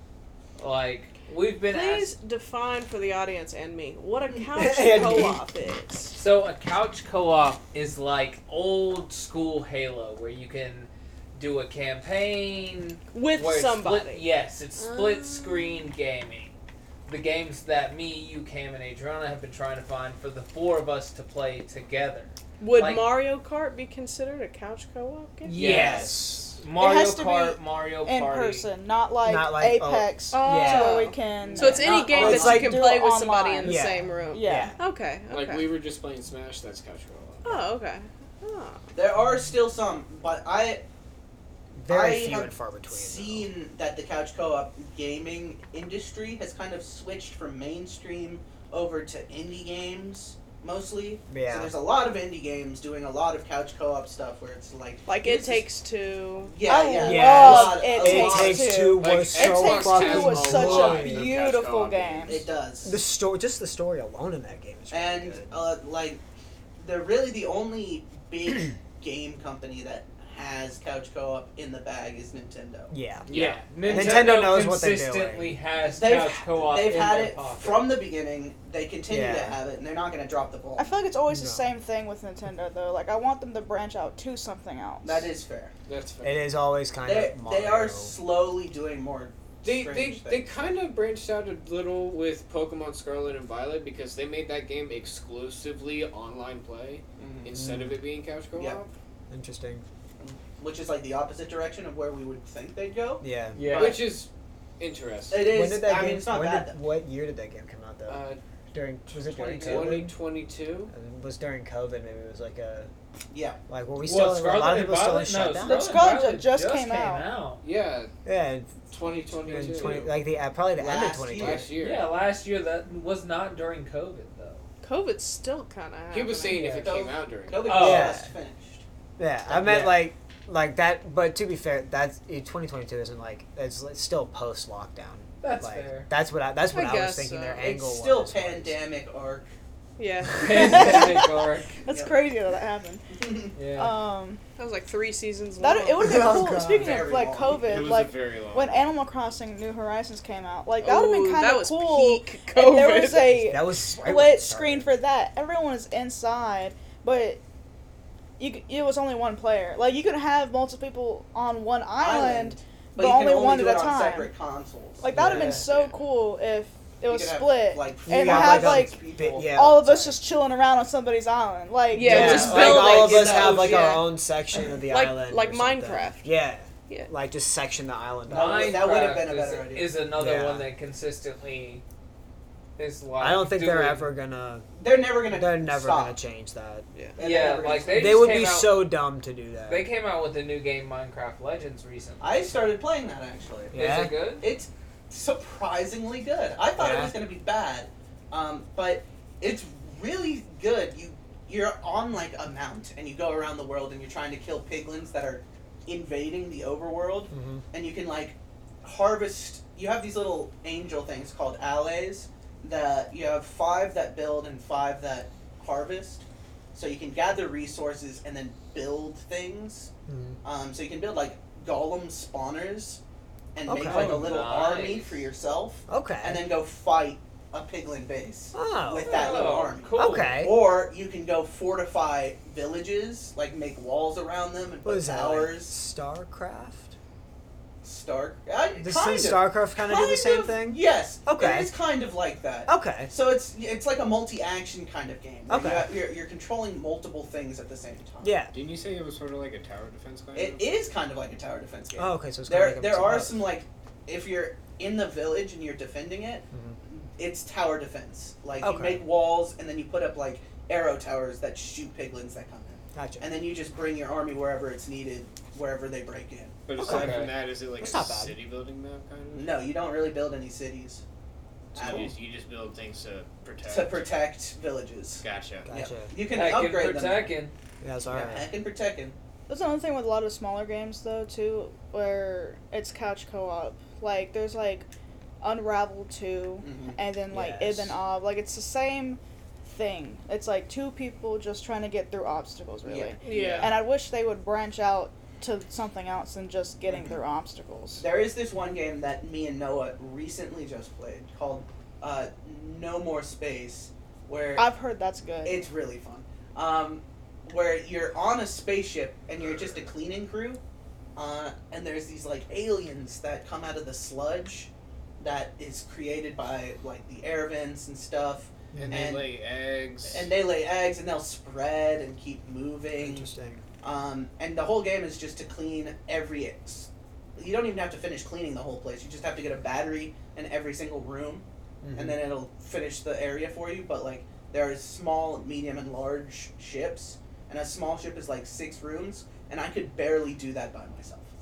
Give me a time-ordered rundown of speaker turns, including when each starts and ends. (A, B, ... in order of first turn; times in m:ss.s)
0:00.6-0:02.1 A
0:01.7-0:06.2 B
0:04.5-0:05.4 C
0:06.1-0:16.5 A
0:13.1-0:14.2 B
0:14.8-0:15.8 B
0:17.0-0:23.1 A
0:22.6-0:25.6 B
0:25.4-0:26.5 C
0:25.5-0:28.7 A
0:25.6-0:26.5 D
0:26.7-0:34.8 E
0:29.2-0:31.1 C
0:30.3-0:35.7 B
0:31.5-0:32.6 F
0:31.9-0:32.8 C
0:33.6-0:34.8 C
0:35.3-0:37.7 D
0:37.4-0:38.8 B
0:38.9-0:40.8 F
0:41.7-0:43.5 C
0:41.9-0:55.6 F
0:51.3-0:51.7 C
0:55.1-0:56.5 B
0:56.5-0:58.8 F
0:56.6-1:02.4 E
0:57.0-1:01.3 C
0:59.0-1:02.4 D
1:02.3-1:03.0 F
1:02.8-1:05.6 C
1:04.9-1:06.2 F
1:06.8-1:12.9 F
1:12.9-1:15.6 C
1:13.3-1:13.7 D
1:13.3-1:17.9 A
1:13.8-1:14.4 F
1:15.8-1:21.0 F
1:19.1-1:19.6 C
1:20.8-1:25.3 E
1:21.3-1:21.7 C
1:25.0-1:25.7 F
1:25.9-1:26.4 D
1:26.2-1:28.2 C
1:27.0-1:30.6 F
1:29.6-1:38.9 D
1:37.2-1:37.6 F
1:37.6-1:38.0 C
1:38.5-1:38.8 F
1:39.3-1:39.8 C
1:40.2-1:44.1 F
1:43.2-1:43.7 C
1:43.6-1:44.1 A
1:43.6-1:45.5 D
1:45.3-1:46.8 F
1:45.4-1:50.2 C
1:48.1-1:48.4 D
1:49.3-1:50.1 F
1:49.5-1:50.9 D
1:50.9-1:52.9 C
1:53.3-1:53.6 F
1:53.7-1:55.9 C
1:54.0-1:57.6 A
1:55.6-1:57.3 E
1:57.6-1:58.1 D
1:58.2-1:58.8 C
1:58.9-2:00.2 D
1:59.4-2:01.7 C
2:00.7-2:01.7 F
2:01.3-2:02.1 D
2:01.8-2:04.6 A
2:04.8-2:06.8 B
2:06.1-2:07.7 D
2:06.4-2:07.0 A
2:06.8-2:08.8 F
2:07.6-2:08.2 A
2:07.7-2:08.3 C
2:09.2-2:18.8 C
2:15.4-2:16.1 A
2:16.7-2:17.7 B
2:17.6-2:19.5 F
2:20.0-2:20.9 B
2:20.4-2:21.8 A
2:20.5-2:21.3 E
2:21.8-2:23.1 E
2:21.9-2:22.2 F
2:23.1-2:23.6 F
2:23.6-2:24.0 A
2:23.7-2:24.4 E
2:24.6-2:26.2 B
2:25.6-2:37.4 E
2:26.0-2:27.1 C
2:26.6-2:27.9 F
2:27.6-2:28.9 D
2:30.8-2:33.4 B
2:33.4-2:34.9 C
2:38.4-2:44.3 E
2:42.0-2:45.1 F
2:45.0-2:52.5 E
2:45.1-2:45.6 C
2:45.2-2:45.6 A
2:47.0-2:49.6 F
2:48.1-2:50.2 C
2:51.9-2:54.1 B
2:52.0-2:54.0 A
2:52.0-2:58.9 C
2:54.8-2:56.3 B
2:58.3-2:59.9 F
2:58.3-3:01.8 A
3:00.1-3:00.7 C
3:02.8-3:04.1 A
3:03.2-3:04.7 C
3:04.8-3:06.2 F
3:05.2-3:06.9 C
3:07.2-3:08.4 F
3:07.2-3:08.8 A
3:07.9-3:09.9 C
3:09.6-3:12.4 A
3:12.2-3:13.7 F
3:13.7-3:14.2 C
3:13.7-3:14.4 A
3:14.4-3:39.9 F
3:16.8-3:17.1 C
3:27.3-3:27.6 C
3:40.1-3:40.4 C
3:40.4-3:43.0 F
3:43.5-3:55.7 F
3:43.6-3:44.3 C
3:43.8-3:45.2 A
3:45.9-3:46.4 C
3:48.5-3:49.4 C
3:49.0-3:50.3 A
3:49.9-3:50.7 C
3:54.8-3:57.0 C
3:57.8-4:08.4 F
3:58.8-4:01.7 C
4:02.7-4:03.1 C
4:05.5-4:06.0 C
4:08.2-4:08.5 C
4:08.5-4:10.7 D
4:10.3-4:26.6 F
4:12.0-4:13.5 C
4:16.5-4:16.8 C
4:18.6-4:19.0 C
4:22.9-4:23.3 C
4:26.7-4:29.6 D
4:26.8-4:27.3 A
4:26.8-4:28.4 C
4:29.3-4:31.0 F
4:31.7-4:32.2 F
4:31.7-4:34.1 D
4:33.6-4:37.3 F
4:35.2-4:35.7 D
4:35.6-4:36.1 C
4:36.3-4:37.5 A
4:37.8-4:38.5 C
4:38.1-4:39.2 F
4:39.5-4:44.9 E
4:45.4-4:58.0 E
4:46.6-4:47.0 F
4:47.3-4:47.9 C
4:52.8-4:53.8 F
4:53.2-4:53.7 D
4:53.2-4:53.7 B
4:58.0-5:04.7 F
5:04.6-5:05.7 E
5:05.4-5:10.6 F
5:11.2-5:19.3 F
5:18.7-5:19.1 C
5:18.8-5:20.3 D
5:20.1-5:23.3 F
5:23.0-5:23.6 C
5:23.8-5:41.3 F
5:31.8-5:32.2 C